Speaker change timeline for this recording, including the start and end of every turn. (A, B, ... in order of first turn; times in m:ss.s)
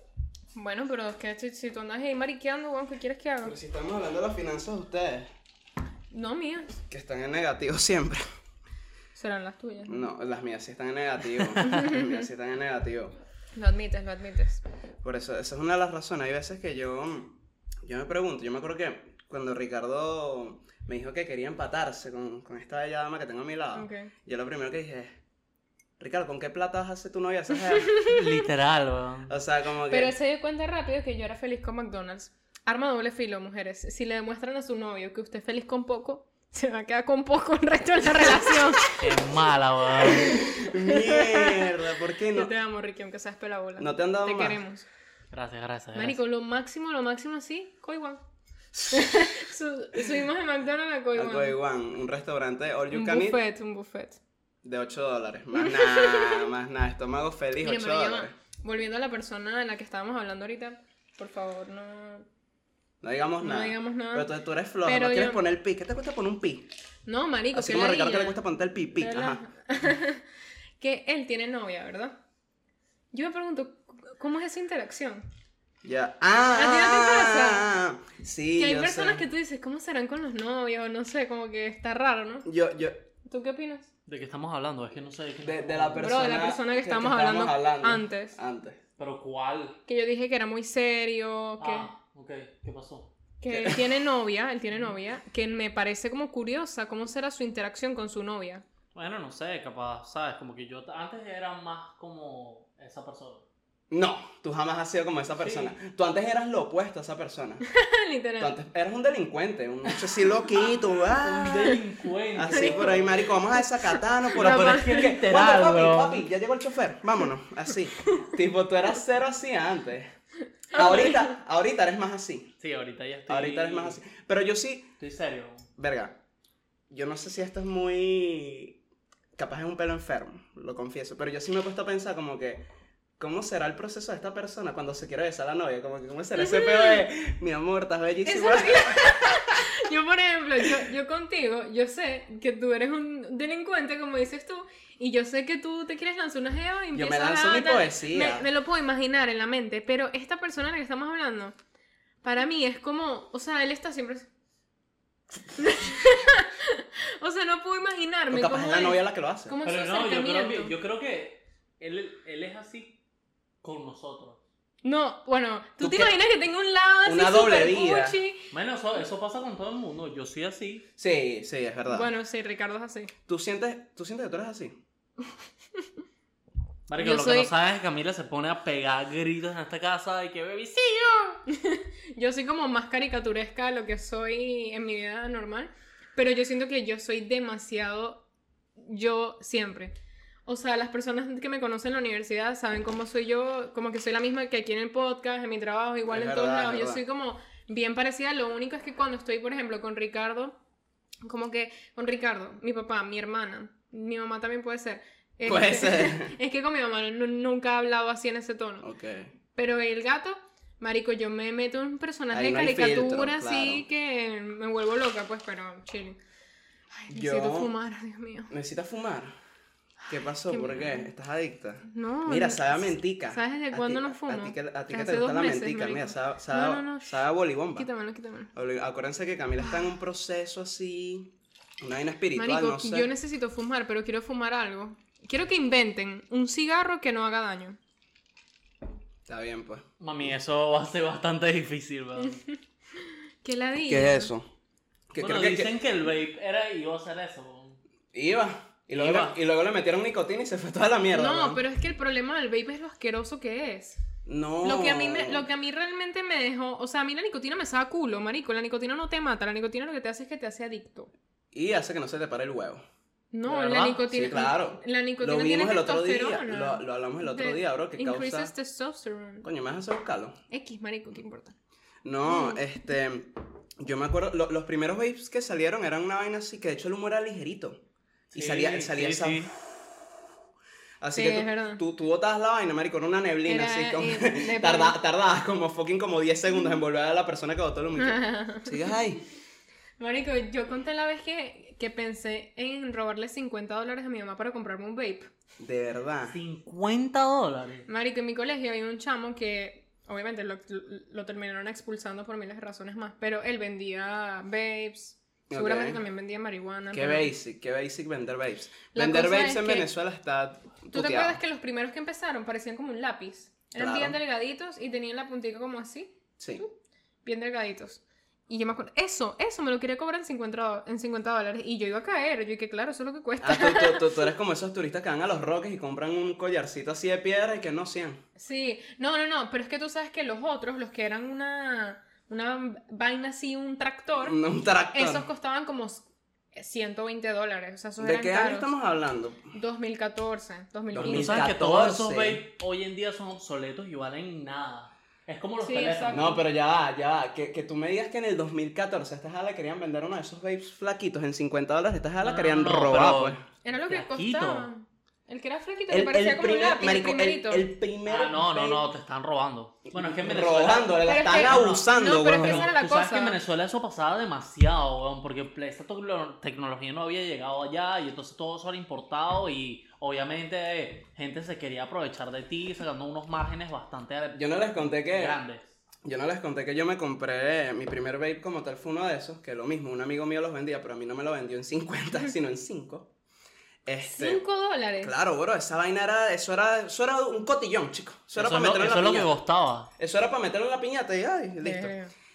0:00.5-0:03.6 A
0:03.4-0:05.3 B
0:06.1-0:06.8 A
0:06.9-0:08.2 B
0:09.1-0:10.0 A
0:09.9-0:13.2 B
0:11.6-0:12.1 A
0:13.6-0:14.6 A
0:15.0-0:25.2 B
0:23.7-0:24.1 A
0:26.0-0:27.9 B
0:27.7-0:28.2 A
0:28.0-0:29.3 C
0:29.3-0:30.2 B
0:29.9-0:38.9 A
0:38.4-0:38.8 B
0:39.0-0:40.4 C
0:40.0-0:42.5 B
0:40.2-0:41.7 A
0:42.3-0:44.9 A
0:43.8-0:44.6 B
0:45.3-0:46.2 C
0:46.0-0:48.2 A
0:48.7-0:49.4 B
0:48.9-0:51.6 A
0:51.1-0:53.4 B
0:52.9-0:54.2 A
0:54.6-0:58.4 B
0:55.5-0:56.5 A
0:57.6-1:02.3 A
1:03.0-1:06.7 B
1:03.4-1:04.3 A
1:04.8-1:05.4 A
1:07.1-1:08.4 A
1:07.5-1:09.4 B
1:09.0-1:10.3 A
1:10.8-1:12.2 A
1:13.1-1:15.3 A
1:15.8-1:19.2 B
1:16.5-1:17.7 A
1:18.6-1:22.5 A
1:22.4-1:23.1 B
1:23.3-1:23.9 A
1:24.1-1:26.3 C
1:25.4-1:28.8 B
1:26.0-1:28.4 A
1:29.0-1:29.8 C
1:29.9-1:31.9 A
1:31.6-1:33.1 C
1:33.4-1:38.6 A
1:33.5-1:33.8 B
1:39.0-1:43.5 C
1:43.9-1:47.6 B
1:45.4-1:45.8 C
1:47.7-1:48.6 A
1:48.4-1:51.8 B
1:51.2-1:53.3 C
1:52.4-2:00.1 B
1:52.5-1:52.9 A
1:54.3-1:55.1 A
1:54.4-1:56.3 C
2:00.7-2:02.5 B
2:00.7-2:01.3 A
2:02.6-2:04.0 C
2:03.3-2:04.9 B
2:05.0-2:05.7 C
2:05.8-2:06.2 B
2:06.9-2:08.8 B
2:09.4-2:12.7 B
2:13.2-2:19.7 B
2:16.4-2:17.0 A
2:18.2-2:31.6 A
2:26.9-2:28.5 B
2:32.2-2:34.3 A
2:35.6-2:40.7 A
2:38.3-2:39.6 B
2:39.6-2:43.0 C
2:43.6-2:44.4 C
2:44.8-2:48.4 A
2:45.8-2:46.1 B
2:47.0-2:48.2 B
2:48.5-2:50.9 C
2:51.0-2:52.1 B
2:51.9-2:53.1 A
2:53.3-2:54.8 B
2:56.9-3:01.4 C
2:57.0-2:57.5 A
3:01.5-3:08.2 A
3:08.8-3:09.9 A
3:10.5-3:20.6 A
3:16.1-3:17.0 B
3:21.2-3:28.9 A
3:25.4-3:26.4 B
3:28.8-3:29.3 B
3:29.6-3:36.2 A
3:32.3-3:33.9 B
3:36.9-3:38.5 A
3:37.1-3:37.7 B
3:38.5-3:39.4 B
3:40.0-3:41.1 A
3:40.1-3:47.9 B
3:41.8-3:47.2 A
3:47.8-3:48.5 A
3:48.5-3:53.1 B
3:52.4-3:57.8 A
3:59.3-3:59.8 B
4:00.0-4:02.4 C
4:02.2-4:04.3 A
4:03.9-4:04.5 B
4:05.1-4:05.7 B
4:05.2-4:07.8 C
4:08.1-4:11.6 B
4:08.9-4:09.4 C
4:11.1-4:14.0 A
4:14.2-4:15.5 B
4:14.6-4:21.1 A
4:21.5-4:22.8 B
4:23.3-4:29.5 A
4:23.5-4:24.0 C
4:24.1-4:28.5 B
4:29.4-4:30.4 B
4:30.5-4:31.6 A
4:32.0-4:37.8 B
4:32.3-4:32.6 A
4:38.3-4:39.5 C
4:38.3-4:39.5 B
4:41.0-4:49.2 B
4:41.2-4:41.8 A
4:43.5-4:45.0 A
4:48.0-4:49.0 A
4:50.0-4:55.3 A
4:55.6-4:56.4 B
4:56.3-4:57.9 C
4:57.9-5:07.3 A
5:05.5-5:06.0 B
5:06.9-5:11.4 B
5:08.9-5:09.9 A
5:10.9-5:24.3 A
5:13.8-5:14.2 B
5:23.4-5:28.2 B
5:28.4-5:34.4 A
5:34.2-5:35.3 B
5:34.9-5:38.7 A
5:38.0-5:39.6 B
5:39.5-5:41.5 A
5:40.9-5:42.4 B
5:41.0-5:46.3 C
5:45.6-5:46.4 A
5:46.1-5:53.4 B
5:52.2-5:54.7 C
5:53.6-5:57.7 A
5:55.9-5:58.9 B
5:58.1-6:15.8 C
5:59.9-6:02.7 B
6:01.1-6:03.4 A
6:14.3-6:15.4 B
6:16.0-6:23.1 B
6:23.9-6:24.4 B
6:24.0-6:25.2 A
6:25.0-6:29.4 B
6:28.4-6:29.9 C
6:30.0-6:31.9 B
6:31.6-6:32.1 A